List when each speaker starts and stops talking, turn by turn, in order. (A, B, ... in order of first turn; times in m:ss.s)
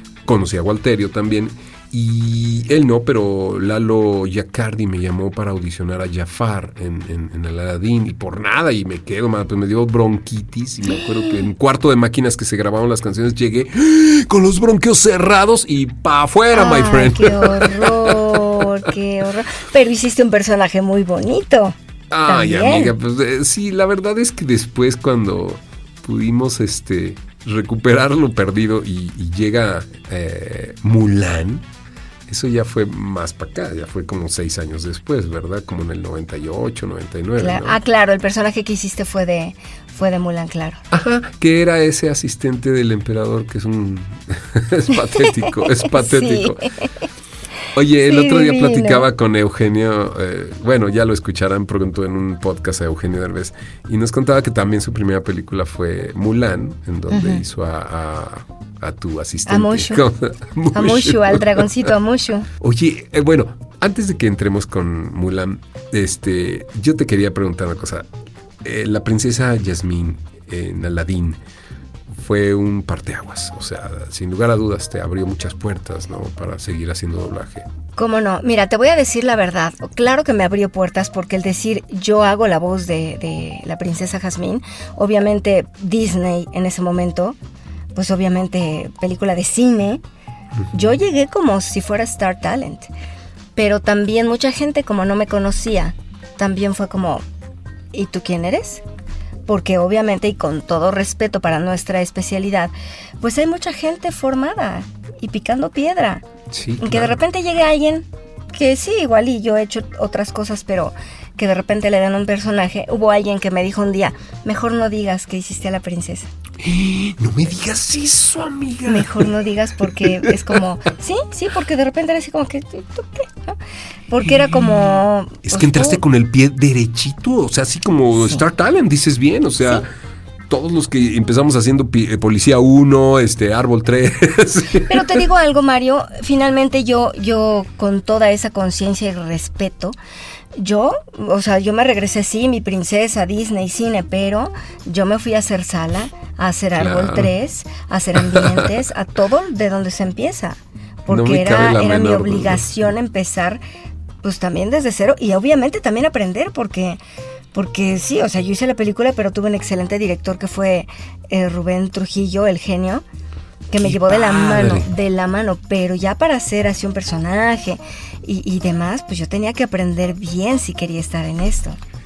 0:00.2-0:18.9 A
0:16.5-0:21.7 B
0:22.1-0:31.6 A
0:22.3-0:22.9 B
0:32.3-0:37.8 A
0:37.4-0:40.8 B
0:40.9-0:46.6 A
0:45.3-0:46.9 B
0:47.7-1:01.7 A
0:48.1-0:49.1 B
0:57.1-0:57.4 B
0:59.5-1:00.0 B
1:00.7-1:02.5 B
1:02.6-1:08.1 A
1:08.6-1:11.4 A
1:12.1-1:17.7 A
1:18.0-1:27.4 B
1:27.9-1:30.0 B
1:30.7-1:32.9 B
1:33.6-1:37.2 B
1:37.9-1:38.8 B
1:39.5-1:46.2 B
1:46.5-1:47.2 A
1:46.8-1:56.3 B
1:56.6-1:59.3 A
1:58.9-2:06.0 B
1:59.8-2:00.6 A
2:04.2-2:04.9 A
2:05.4-2:09.9 A
2:10.5-2:15.2 A
2:14.9-2:20.0 B
2:20.6-2:33.6 B
2:26.8-2:27.3 A
2:28.2-2:28.7 A
2:31.1-2:32.7 A
2:34.2-2:37.0 B
2:37.5-2:43.0 B
2:43.7-2:51.8 B
2:43.8-2:44.9 A